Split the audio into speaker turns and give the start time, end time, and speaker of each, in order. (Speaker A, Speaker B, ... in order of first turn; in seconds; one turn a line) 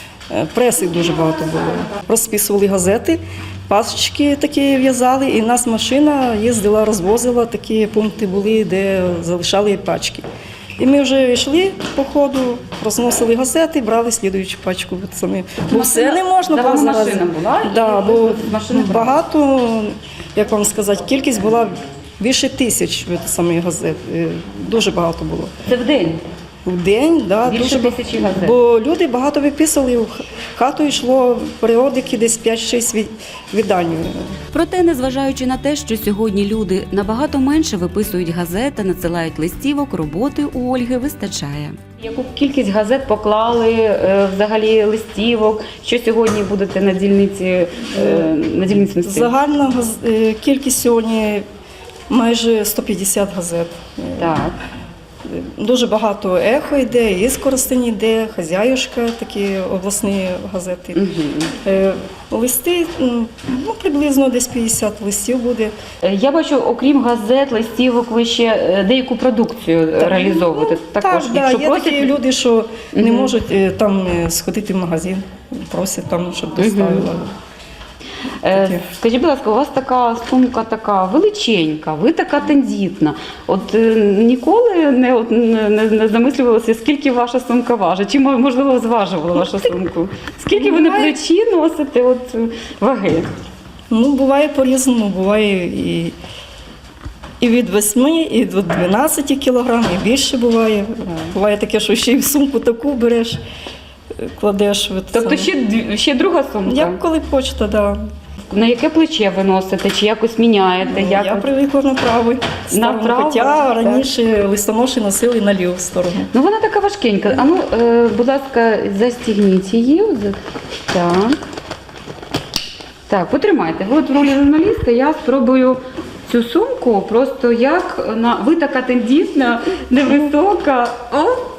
Speaker A: 0.3-10.2
Speaker A: 10.8-25.5
Speaker B: 15.7-19.2
Speaker B: 25.7-26.2
Speaker A: 26.7-34.3
Speaker B: 27.4-28.6
Speaker C: 34.5-41.8
Speaker B: 42.0-49.3
Speaker A: 49.0-51.5
Speaker A: 52.1-54.4
Speaker B: 54.2-54.6
Speaker A: 55.3-61.0
Speaker B: 61.0-61.5
Speaker A: 61.6-65.7
Speaker B: 66.0-72.2
Speaker A: 70.0-77.3
Speaker B: 73.0-73.3
Speaker B: 76.6-77.1
Speaker B: 78.4-93.3
Speaker A: 78.5-78.8
Speaker A: 90.5-91.2
Speaker A: 93.9-96.2
Speaker A: 97.4-103.4
Speaker A: 104.2-105.5
Speaker B: 105.1-107.0
Speaker A: 106.7-108.0
Speaker B: 108.5-111.5
Speaker A: 110.9-116.3
Speaker B: 112.7-114.1
Speaker B: 116.3-120.4
Speaker B: 120.9-121.4
Speaker B: 123.1-131.4